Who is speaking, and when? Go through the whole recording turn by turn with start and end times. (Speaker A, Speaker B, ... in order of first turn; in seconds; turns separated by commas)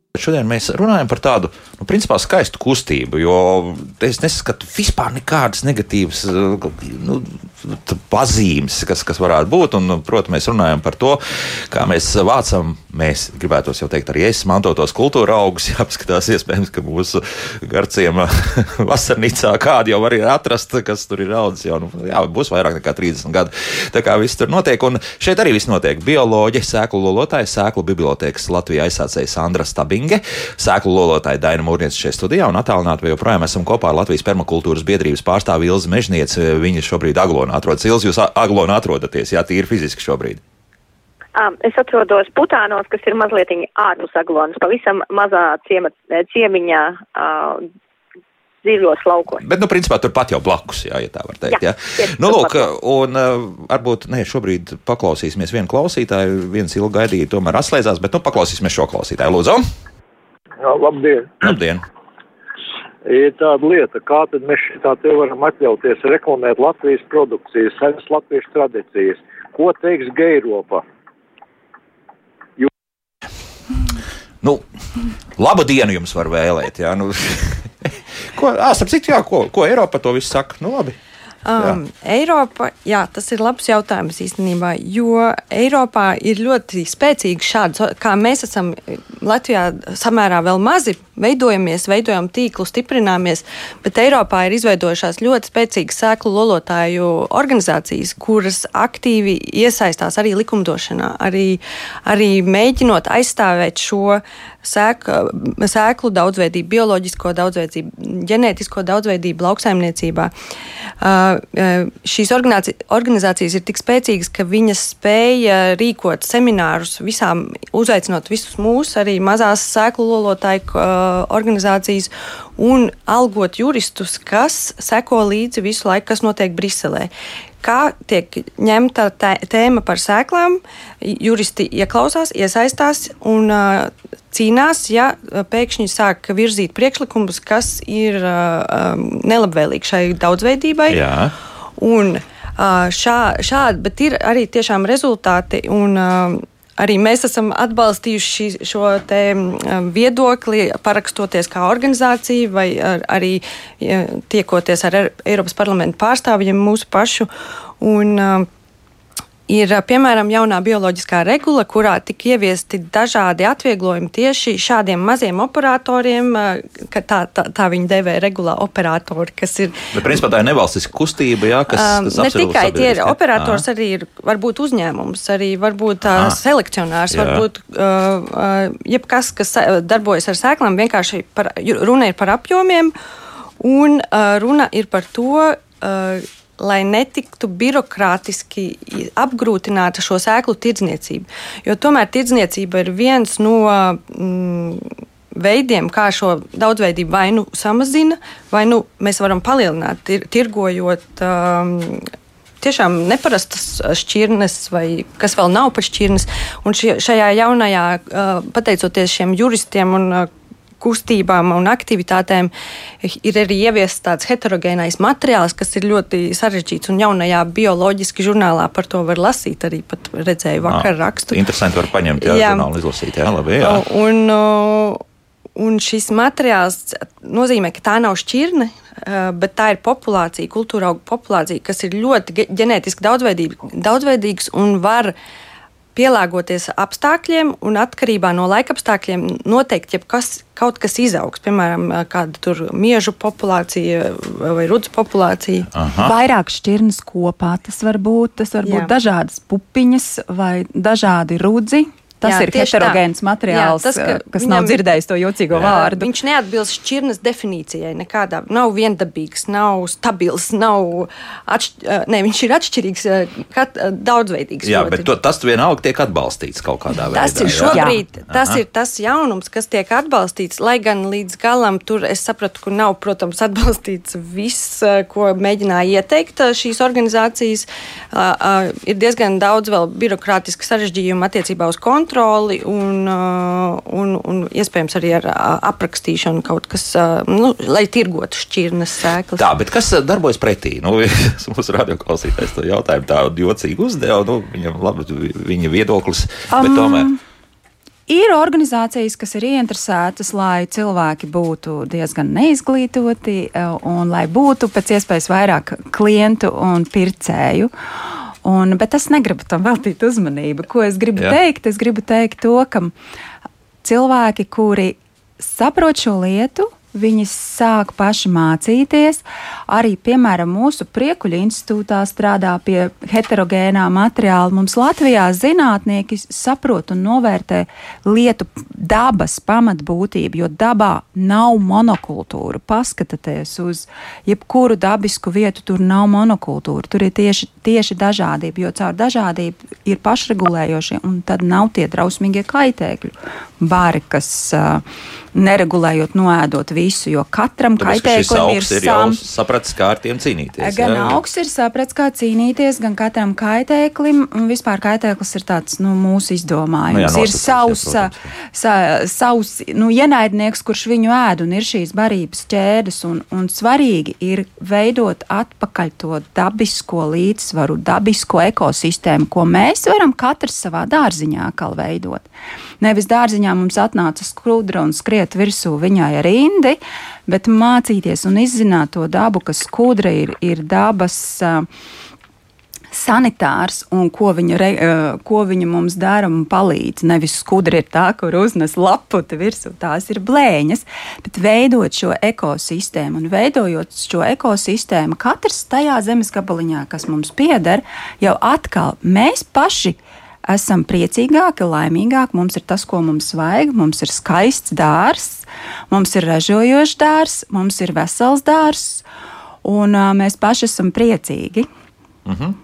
Speaker A: 0.1-40.4, Speaker B: 41.4-47.6, Speaker B: 48.6-49.4, Speaker A: 49.4-59.6, Speaker B: 51.5-52.7, Speaker C: 60.6-61.4, Speaker A: 61.4-61.8, Speaker C: 63.0-70.8, Speaker A: 75.4-81.0, Speaker D: 81.5-110.3, Speaker D: 111.0-127.1, Speaker D: 127.6-141.1, Speaker A: 140.9-141.3, Speaker D: 141.8-157.3, Speaker D: 157.8-158.5, Speaker D: 159.5-169.9, Speaker A: 169.9-173.6, Speaker D: 171.7-182.9, Speaker A: 176.1-176.4, Speaker A: 177.1-177.5, Speaker D: 183.6-202.1, Speaker D: 202.6-210.3, Speaker D: 210.8-212.5, Speaker D: 213.0-221.4, Speaker A: 220.6-223.8, Speaker D: 222.2-222.7, Speaker D: 223.6-225.0, Speaker D: 225.6-235.1, Speaker D: 235.9-245.7, Speaker A: 245.7-246.1, Speaker E: 246.0-256.1, Speaker D: 248.6-248.9, Speaker D: 252.2-254.8, Speaker D: 255.6-265.1, Speaker A: 264.6-268.6, Speaker E: 267.1-268.0, Speaker D: 267.4-289.5, Speaker A: 289.4-297.1, Speaker E: 296.5-297.2, Speaker E: 298.1-307.7, Speaker E: 308.4-312.9, Speaker E: 313.8-349.2, Speaker A: 347.8-351.2, Speaker E: 350.6-372.3, Speaker A: 356.9-358.3, Speaker E: 372.8-381.7, Speaker E: 382.9-409.0, Speaker E: 409.6-411.7, Speaker A: 412.3-412.6